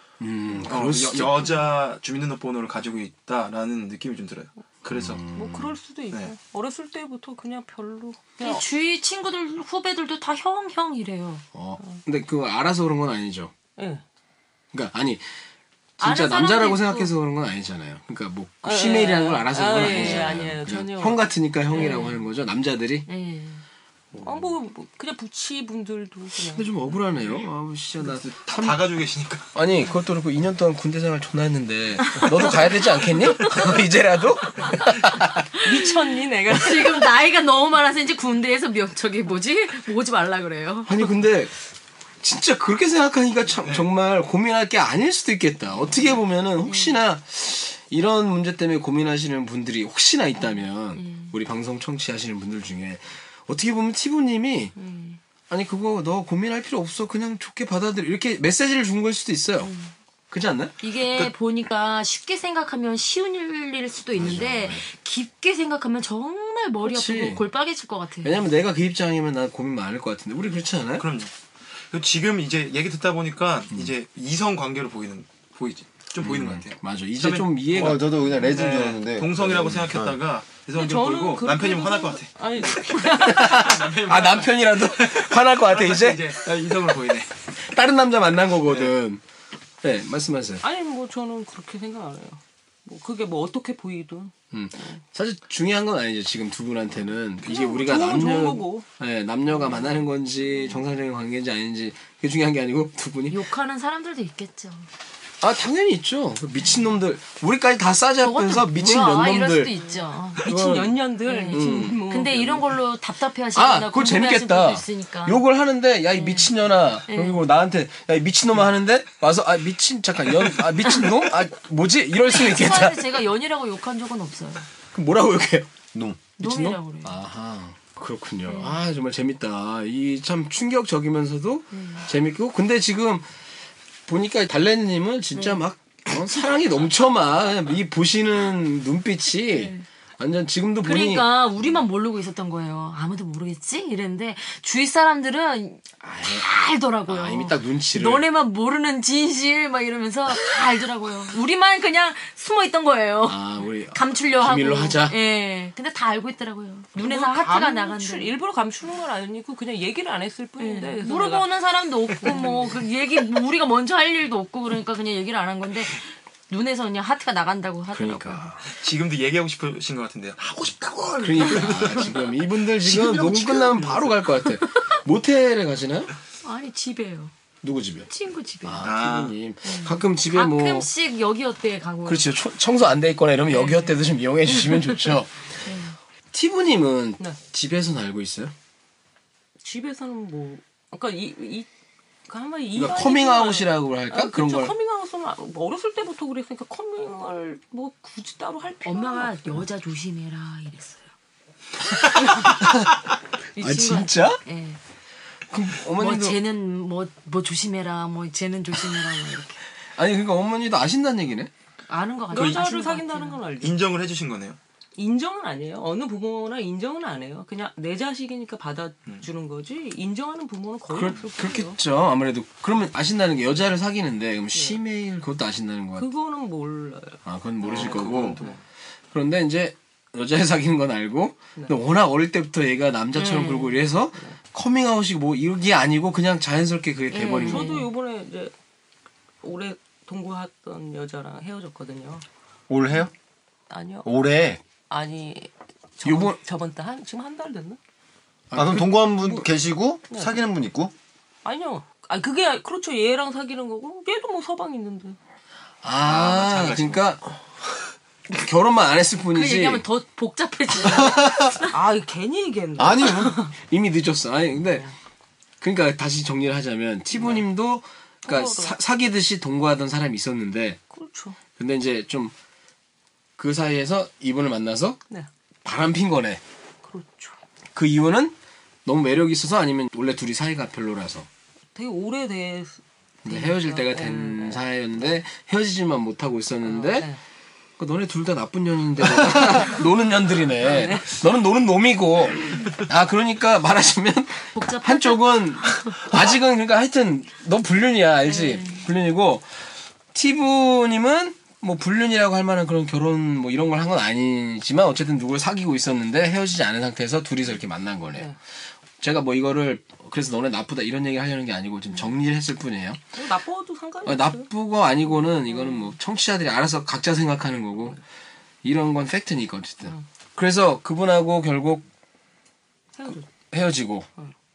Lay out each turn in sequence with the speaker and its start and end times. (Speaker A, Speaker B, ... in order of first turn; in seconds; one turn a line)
Speaker A: 0.2-1.5
Speaker B: 0.6-5.2
Speaker A: 4.9-5.8
Speaker C: 5.3-8.6
Speaker D: 8.4-11.4
Speaker A: 11.5-13.5
Speaker C: 13.8-14.0
Speaker A: 14.7-15.3
Speaker A: 16.0-23.1
Speaker D: 16.0-17.1
Speaker C: 18.6-22.1
Speaker D: 19.7-20.4
Speaker D: 21.7-22.2
Speaker D: 23.1-23.6
Speaker A: 24.1-24.5
Speaker C: 24.2-26.7
Speaker A: 26.5-28.8
Speaker B: 28.2-29.5
Speaker A: 29.5-35.5
Speaker D: 32.1-32.4
Speaker C: 35.6-37.1
Speaker D: 36.5-41.1
Speaker A: 40.9-41.5
Speaker A: 42.2-54.7
Speaker D: 46.6-47.0
Speaker D: 50.9-51.3
Speaker D: 54.8-55.2
Speaker A: 55.5-59.7
Speaker D: 59.6-59.9
Speaker A: 60.3-60.7
Speaker D: 60.8-68.4
Speaker A: 64.2-64.8
Speaker A: 66.8-67.5
Speaker A: 68.2-71.0
Speaker B: 71.0-71.3
Speaker B: 71.8-82.3
Speaker A: 76.2-78.1
Speaker E: 77.7-80.2
Speaker C: 80.7-83.8
Speaker A: 83.2-86.3
Speaker B: 83.5-87.3
Speaker A: 87.6-89.2
Speaker B: 88.7-88.9
Speaker A: 89.8-90.6
Speaker C: 90.6-95.0
Speaker A: 94.5-103.4
Speaker C: 97.4-98.8
Speaker D: 103.3-104.9
Speaker A: 105.4-109.7
Speaker D: 108.2-110.5
Speaker C: 110.4-112.7
Speaker A: 110.4-112.0
Speaker D: 111.2-115.4
Speaker A: 113.5-123.2
Speaker D: 116.1-116.5
Speaker D: 117.1-117.4
Speaker D: 122.3-124.7
Speaker A: 124.9-125.7
Speaker E: 125.9-126.2
Speaker D: 126.4-127.2
Speaker A: 126.4-133.3
Speaker D: 128.5-128.8
Speaker D: 131.7-132.1
Speaker A: 134.1-141.6
Speaker D: 135.3-135.6
Speaker D: 139.5-139.8
Speaker D: 140.8-158.3
Speaker A: 146.0-146.5
Speaker A: 147.1-148.3
Speaker A: 153.2-155.2
Speaker C: 156.9-161.5
Speaker D: 160.6-168.5
Speaker C: 162.2-162.7
Speaker A: 167.9-168.6
Speaker B: 168.7-174.2
Speaker A: 171.2-176.1
Speaker D: 176.4-177.3
Speaker A: 177.6-178.1
Speaker D: 178.1-178.9
Speaker A: 178.6-180.9
Speaker B: 178.8-179.3
Speaker D: 179.6-182.3
Speaker A: 182.0-185.4
Speaker D: 183.5-183.9
Speaker D: 185.6-185.9
Speaker A: 186.3-188.5
Speaker C: 189.6-191.7
Speaker C: 192.3-199.4
Speaker A: 192.7-194.7
Speaker D: 198.8-201.1
Speaker D: 202.2-202.5
Speaker A: 202.5-202.8
Speaker D: 203.5-204.8
Speaker A: 203.6-204.4
Speaker A: 205.5-206.4
Speaker D: 206.0-209.6
Speaker A: 209.9-211.5
Speaker D: 211.9-213.4
Speaker C: 212.3-213.8
Speaker B: 212.3-212.7
Speaker B: 213.6-214.6
Speaker C: 215.0-221.8
Speaker A: 220.9-226.1
Speaker C: 224.5-224.8
Speaker C: 225.9-228.5
Speaker A: 227.2-228.4
Speaker B: 227.6-228.6
Speaker A: 229.1-237.8
Speaker D: 233.2-233.7
Speaker D: 237.1-237.9
Speaker C: 237.4-238.5
Speaker C: 239.4-242.2
Speaker E: 242.7-243.1
Speaker C: 243.7-244.1
Speaker E: 244.0-244.6
Speaker C: 244.9-247.8
Speaker A: 246.0-246.4
Speaker A: 248.5-249.4
Speaker E: 248.5-250.9
Speaker C: 250.1-250.4
Speaker C: 251.4-255.2
Speaker A: 255.8-257.4
Speaker B: 256.0-257.0
Speaker A: 258.3-259.8
Speaker D: 259.3-261.7
Speaker E: 260.8-261.5
Speaker C: 261.7-263.5
Speaker E: 262.8-263.4
Speaker A: 263.7-264.9
Speaker A: 265.6-270.8
Speaker C: 267.1-267.4
Speaker C: 268.2-268.8
Speaker C: 270.9-271.4
Speaker A: 271.6-272.3
Speaker A: 273.4-275.0
Speaker A: 275.6-276.4
Speaker C: 276.8-277.4
Speaker A: 277.7-281.3
Speaker C: 281.7-284.6
Speaker A: 283.2-287.1
Speaker C: 286.6-287.2
Speaker A: 287.8-299.6
Speaker C: 290.6-291.1
Speaker D: 294.5-295.9
Speaker D: 298.2-298.8
Speaker A: 300.1-308.3
Speaker A: 309.0-313.0
Speaker C: 313.1-314.5
Speaker A: 314.1-318.0
Speaker C: 315.2-315.9
Speaker A: 318.6-321.8
Speaker C: 322.9-323.3
Speaker A: 323.1-324.1